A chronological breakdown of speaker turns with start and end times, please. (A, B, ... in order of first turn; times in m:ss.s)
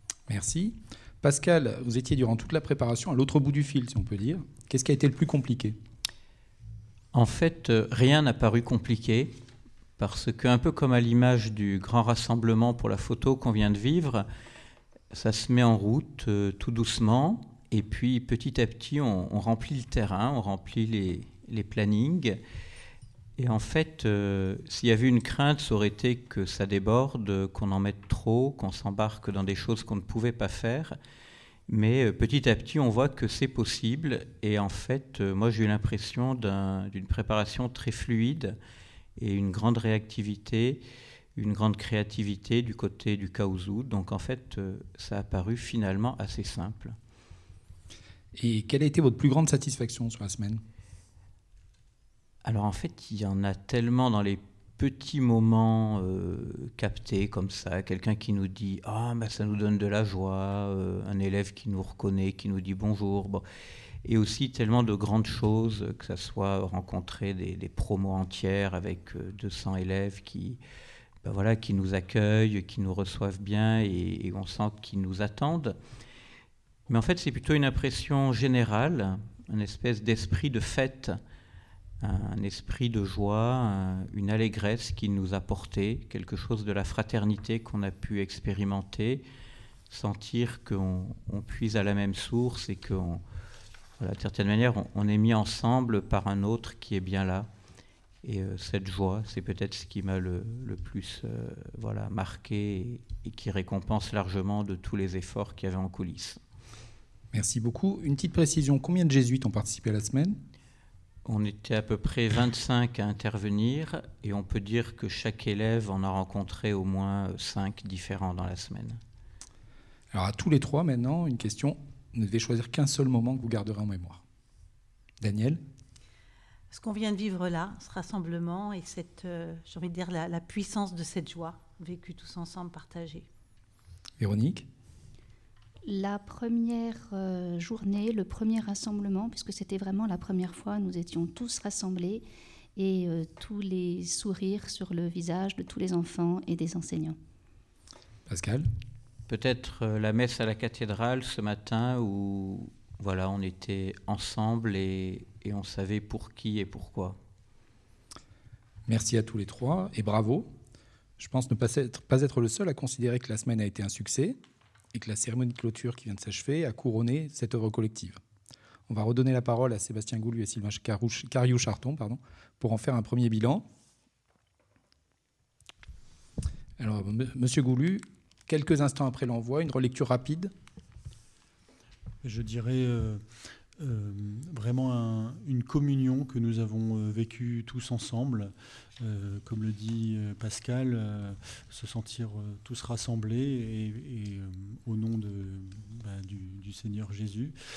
0:00.3-0:05.8 A
0:07.1-0:09.3 B
0:10.0-0:14.2 B
0:15.1-0:22.4 B
0:23.4-0:30.9 B
0:31.7-0:38.6 B
0:39.2-0:40.8 B
0:41.4-0:47.0 B
0:48.4-0:50.6 A
0:52.4-1:03.4 B
1:04.0-1:10.6 B
1:11.2-1:15.8 B
1:16.9-1:21.2 B
1:22.0-1:29.2 B
1:29.9-1:33.2 B
1:34.0-1:37.5 B
1:38.2-1:46.4 B
1:47.3-1:50.4 A
1:51.2-1:59.0 B
2:00.1-2:04.2 A
2:05.2-2:05.6 A
2:06.7-2:13.3 C
2:14.2-2:14.7 A
2:15.8-2:22.2 D
2:22.8-2:27.2 D
2:28.3-2:28.7 A
2:29.3-2:37.2 B
2:38.9-2:40.5 A
2:41.2-2:44.4 A
2:44.9-2:48.2 A
2:48.9-2:53.6 A
2:56.8-3:00.5 A
3:02.2-3:03.2 E
3:03.8-3:17.5 E